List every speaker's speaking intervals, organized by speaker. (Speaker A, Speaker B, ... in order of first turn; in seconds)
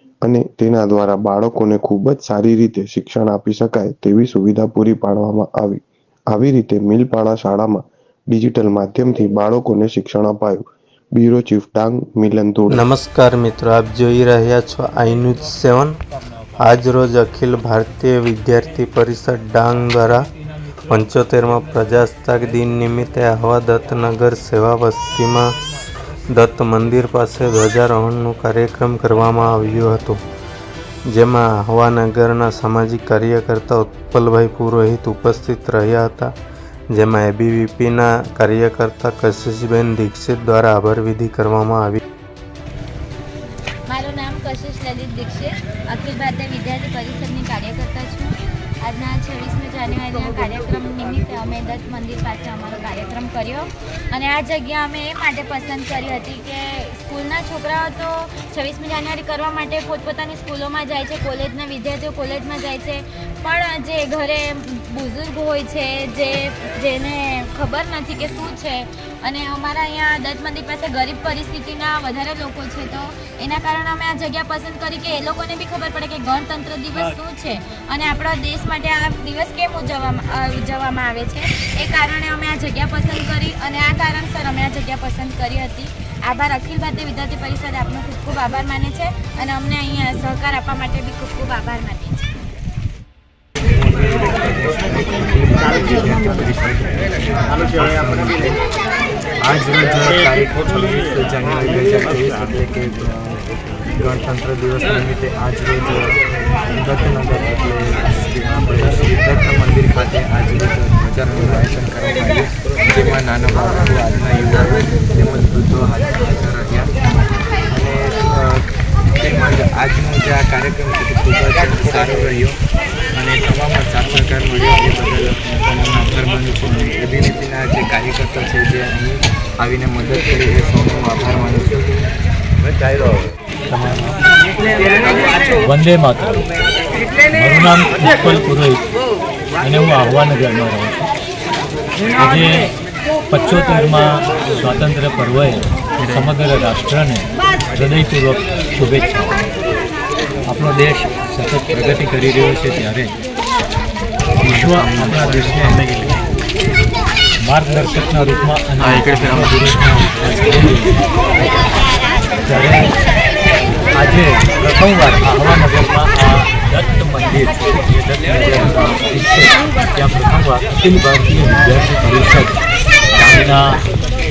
Speaker A: 0.2-10.6, 11.2-12.9
Speaker B: 12.7-16.0, 16.6-20.2, 20.9-25.5, 26.3-30.2, 31.1-36.3, 36.9-42.0
Speaker C: 43.9-92.3
Speaker D: 93.7-98.6, 99.4-116.9, 117.7-118.7, 119.2-122.6, 123.1-132.1, 133.7-134.1, 154.4-155.7
Speaker E: 135.6-136.4, 137.3-138.8, 139.6-141.1, 142.2-142.7, 143.3-149.4, 150.4-153.1, 154.4-155.9, 157.4-161.0, 162.4-162.9, 163.9-172.6, 173.1-173.8